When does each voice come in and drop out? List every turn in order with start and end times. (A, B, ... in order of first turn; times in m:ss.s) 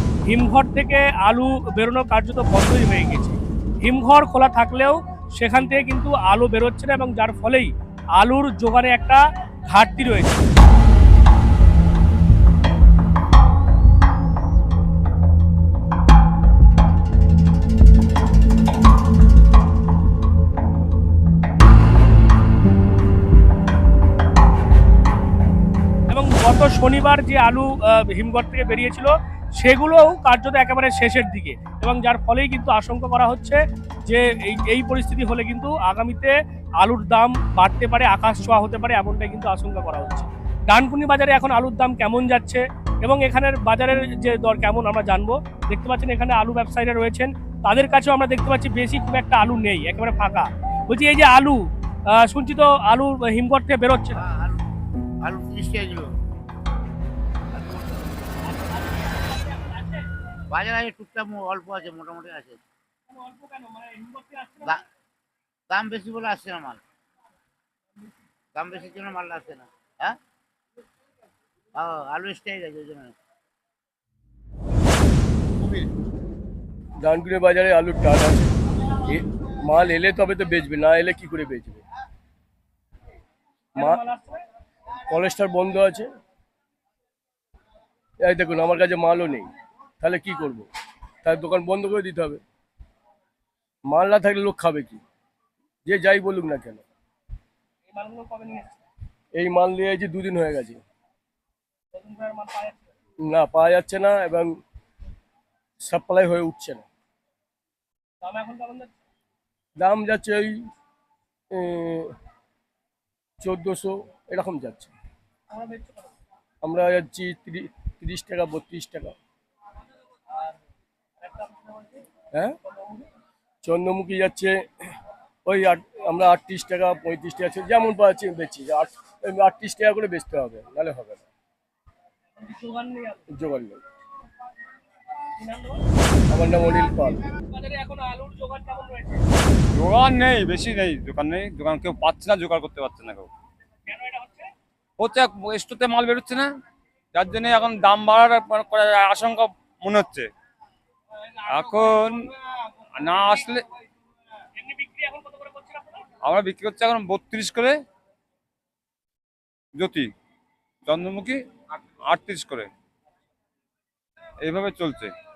0:00.3-0:10.5 A
0:26.1-0:54.2 A
0:54.1-0:54.6 B
0:55.2-0:56.2 B
0:58.5-1:00.0 A
1:00.5-1:02.6 B
1:03.1-1:04.8 A
1:05.7-1:06.8 B
1:08.5-1:10.2 B
1:11.8-1:13.2 B
1:17.0-1:18.5 C
1:19.1-1:21.8 C
1:23.8-1:24.4 A
1:25.1-1:26.1 C
1:28.2-1:30.7 C
1:31.2-1:32.4 C
1:33.9-1:35.0 C
1:35.9-1:36.8 C
1:37.9-1:38.8 A
1:39.4-1:40.8 C
1:41.9-1:42.9 A
1:43.2-1:44.6 C
1:45.8-1:46.9 C
1:48.2-1:49.0 A
1:49.8-1:50.6 C
1:51.5-1:52.2 C
1:53.4-1:54.9 C
1:55.5-1:56.1 A
1:56.6-1:59.2 C
2:01.2-2:02.0 A
2:02.7-2:03.1 A
2:03.6-2:04.6 C
2:05.5-2:11.2 C
2:12.4-2:13.3 A
2:13.3-2:13.8 C
2:15.4-2:15.8 A
2:16.3-2:17.2 C
2:17.5-2:19.3 A
2:19.7-2:23.3 D
2:23.9-2:24.5 A
2:25.0-2:26.5 D
2:27.1-2:30.3 D
2:31.4-2:33.6 A
2:31.5-2:32.3 D
2:33.0-2:33.6 D
2:34.6-2:36.0 A
2:36.2-2:37.7 D
2:39.8-2:40.1 D
2:40.9-2:41.4 D
2:42.0-2:42.7 D
2:44.4-2:45.1 D